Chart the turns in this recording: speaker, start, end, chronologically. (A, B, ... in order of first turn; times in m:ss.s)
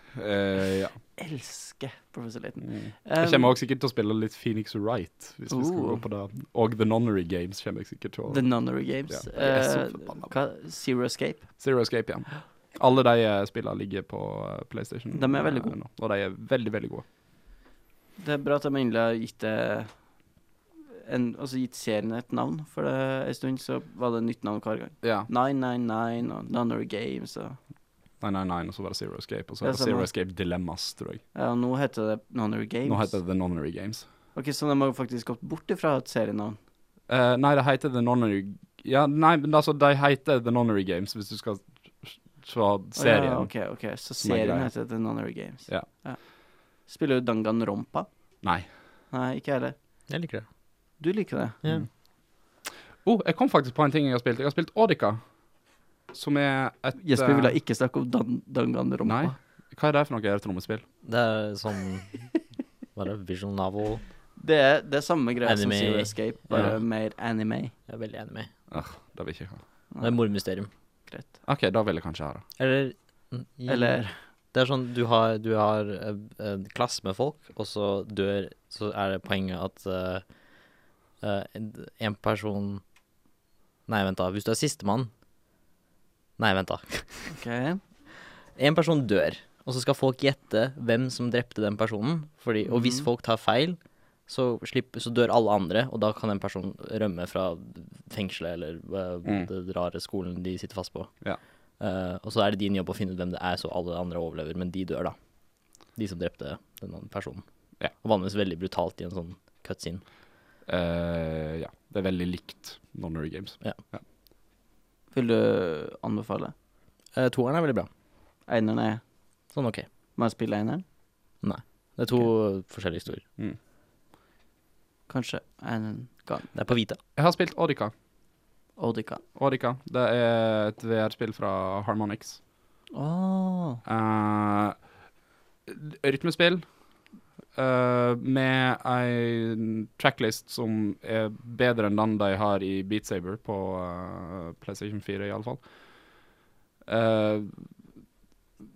0:00.1-0:01.0 A
0:01.2-0:03.5 B
0:02.6-0:08.5 A
0:05.5-0:06.0 B
0:08.3-0:11.5 B
0:09.1-0:10.3 A
0:11.6-0:17.0 A
0:15.1-0:15.8 B
0:18.2-0:19.9 B
0:20.9-0:27.6 B
0:25.0-0:25.3 A
0:28.2-0:31.2 A
0:29.6-0:30.1 B
0:31.3-0:33.2 B
0:32.9-0:34.0 A
0:34.3-0:36.6 B
0:37.1-0:43.5 A
0:43.0-0:46.2 B
0:44.2-0:44.7 A
0:46.8-0:48.1 B
0:48.4-0:48.7 A
0:49.1-0:49.7 B
0:50.1-0:50.4 C
0:51.0-0:51.6 B
0:51.6-0:51.9 C
0:53.0-0:55.3 A
0:56.1-0:57.6 A
0:57.0-0:59.4 B
0:59.0-1:00.8 A
1:01.0-1:02.3 C
1:02.9-1:04.0 C
1:04.4-1:07.7 B
1:05.4-1:06.8 C
1:06.5-1:06.8 A
1:07.9-1:08.5 C
1:08.7-1:09.6 A
1:09.9-1:10.2 B
1:10.0-1:10.7 C
1:11.4-1:12.4 A
1:12.6-1:14.0 C
1:13.7-1:14.1 B
1:14.5-1:20.2 C
1:21.2-1:22.8 C
1:23.9-1:25.1 C
1:26.4-1:27.4 C
1:27.3-1:27.8 B
1:28.5-1:41.1 C
1:32.6-1:33.1 B
1:41.8-1:45.1 C
1:45.9-1:50.0 C
1:50.7-1:54.0 A
1:55.1-1:56.5 B
1:57.1-1:57.9 C
1:58.5-1:59.0 B
1:59.5-1:59.8 C
2:00.2-2:00.8 B
2:01.4-2:03.2 C
2:05.1-2:06.5 B
2:06.5-2:07.0 C
2:07.2-2:07.9 A
2:08.8-2:09.2 B
2:09.4-2:12.4 A
2:12.9-2:13.8 B
2:13.8-2:14.8 A
2:15.7-2:16.6 A
2:17.6-2:25.6 A
2:26.9-2:27.6 A